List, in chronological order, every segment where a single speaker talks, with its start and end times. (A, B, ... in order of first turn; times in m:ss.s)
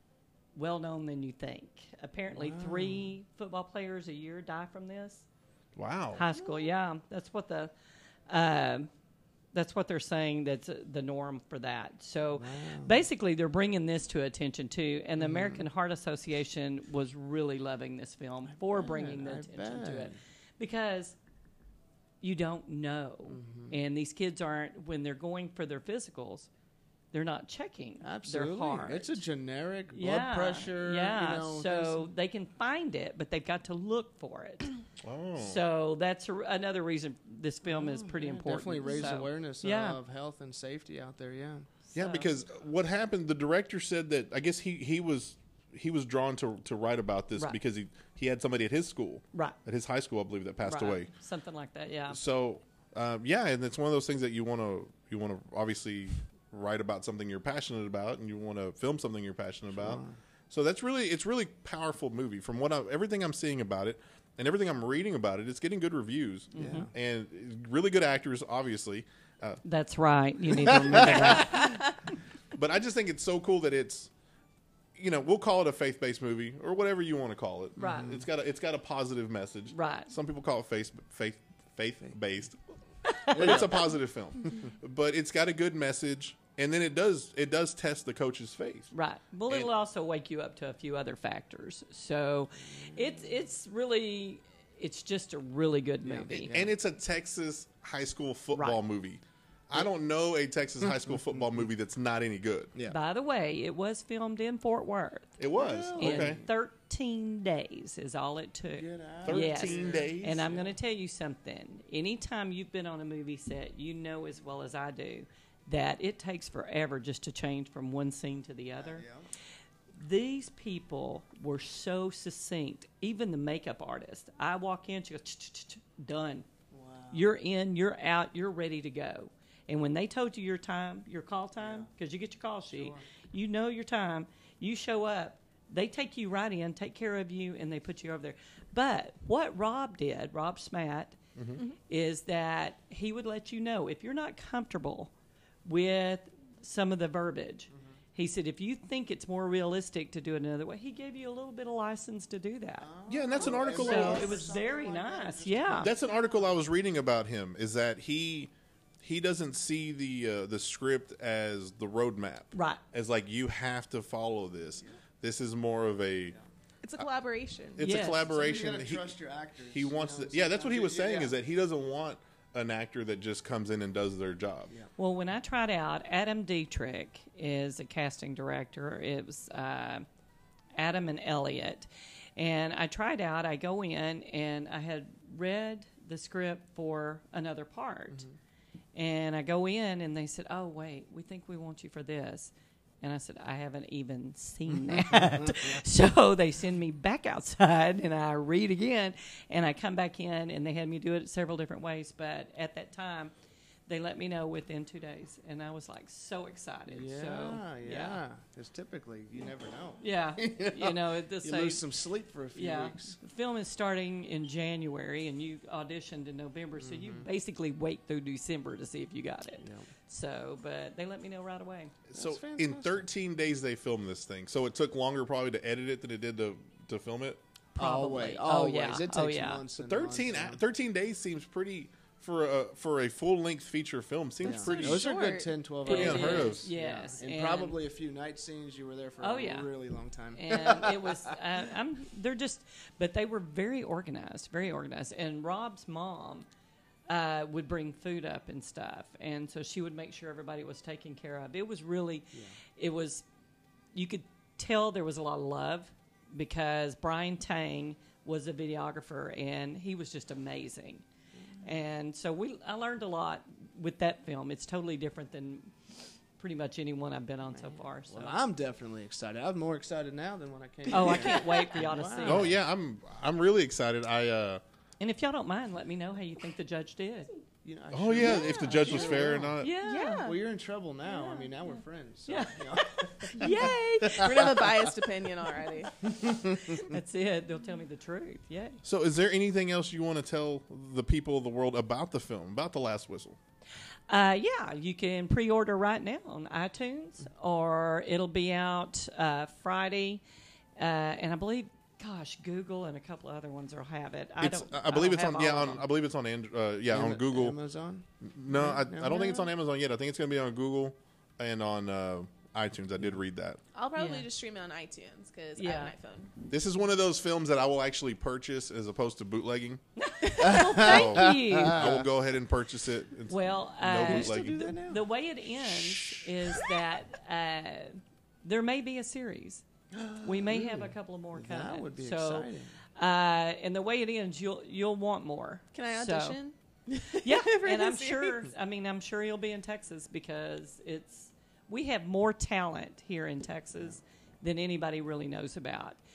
0:00.5-0:05.2 A
0:02.3-0:03.1 B
0:05.8-0:06.2 C
0:06.1-0:07.7 A
0:08.3-0:08.9 A
0:09.5-0:21.2 A
0:12.3-0:13.0 B
0:15.2-0:15.6 B
0:18.5-0:20.2 B
0:22.2-0:26.5 A
0:23.3-0:23.8 B
0:27.1-0:29.2 A
0:28.0-0:32.1 B
0:29.9-0:34.7 A
0:35.0-0:35.6 C
0:35.4-0:40.0 A
0:37.6-0:41.7 B
0:41.9-0:42.3 A
0:41.9-0:51.1 C
0:50.6-0:52.2 A
0:52.1-1:09.6 C
0:59.7-1:00.2 B
1:06.5-1:06.9 A
1:06.6-1:06.9 B
1:09.6-1:11.8 A
1:10.6-1:11.8 C
1:10.6-1:11.5 B
1:12.5-1:14.1 C
1:15.0-1:22.6 C
1:17.8-1:18.1 A
1:17.8-1:18.2 B
1:19.7-1:20.1 A
1:23.0-1:23.4 A
1:23.3-1:28.9 C
1:23.3-1:23.8 B
1:28.9-1:36.6 A
1:32.8-1:33.3 B
1:36.0-1:36.7 B
1:36.3-1:42.7 C
1:42.9-1:45.4 A
1:45.4-1:46.4 C
1:45.5-1:46.4 B
1:46.0-1:59.0 A
1:48.8-1:50.7 B
1:49.2-1:50.5 C
1:58.8-1:59.3 B
1:59.9-2:06.5 A
2:06.7-2:07.3 B
2:07.1-2:21.2 A
2:11.6-2:11.9 B
2:12.7-2:13.0 B
2:21.4-2:21.6 C
2:21.9-2:25.1 A
2:25.6-2:32.9 A
2:27.7-2:28.0 B
2:32.8-2:36.1 B
2:33.1-2:34.5 C
2:33.4-2:35.9 A
2:35.8-2:38.5 C
2:39.0-2:46.4 C
2:42.5-2:42.8 A
2:46.8-2:48.0 D
2:47.8-2:49.1 C
2:47.8-2:48.2 A
2:48.2-2:51.3 B
2:49.7-2:54.7 C
2:55.0-3:00.0 A
3:00.8-3:08.2 A
3:08.9-3:23.3 A
3:23.9-3:28.2 A
3:26.9-3:33.2 B
3:30.0-3:31.8 A
3:32.5-3:41.9 A
3:36.8-3:37.3 B
3:39.6-3:39.9 B
3:42.1-3:47.4 C
3:42.1-3:43.1 B
3:47.8-3:49.6 A
3:47.8-3:50.6 B
3:49.8-3:55.1 C
3:54.4-3:55.6 D
3:54.4-4:01.4 B
3:55.8-3:56.7 C
3:55.8-3:57.8 A
3:59.2-3:59.7 A
4:00.3-4:06.5 A
4:07.1-4:13.2 A
4:13.9-4:21.0 A
4:21.4-4:21.7 B
4:21.6-4:25.7 A
4:26.4-4:28.4 A
4:27.5-4:32.6 B
4:30.9-4:32.5 A
4:32.2-4:34.6 C
4:35.0-4:37.3 A
4:37.6-4:39.6 B
4:37.9-4:39.7 C
4:38.2-4:40.4 D
4:39.6-4:40.2 A
4:40.2-4:45.1 B
4:42.3-4:44.2 A
4:43.4-4:45.9 D
4:46.0-4:46.9 B
4:46.2-4:48.8 A
4:48.8-4:53.4 C
4:54.1-5:00.2 A
5:00.8-5:05.8 A
5:04.4-5:07.6 C
5:06.9-5:09.2 B
5:08.2-5:13.6 C
5:13.7-5:16.3 D
5:14.0-5:14.3 A
5:15.6-5:15.9 A
5:16.5-5:19.8 C
5:20.0-5:21.8 A
5:20.4-5:22.0 B
5:20.4-5:20.8 D
5:20.7-5:24.8 C
5:23.3-5:29.6 A
5:23.9-5:25.1 B
5:25.7-5:26.3 C
5:29.9-5:32.8 B
5:30.2-5:36.4 A
5:35.7-5:38.4 D
5:37.1-5:46.0 A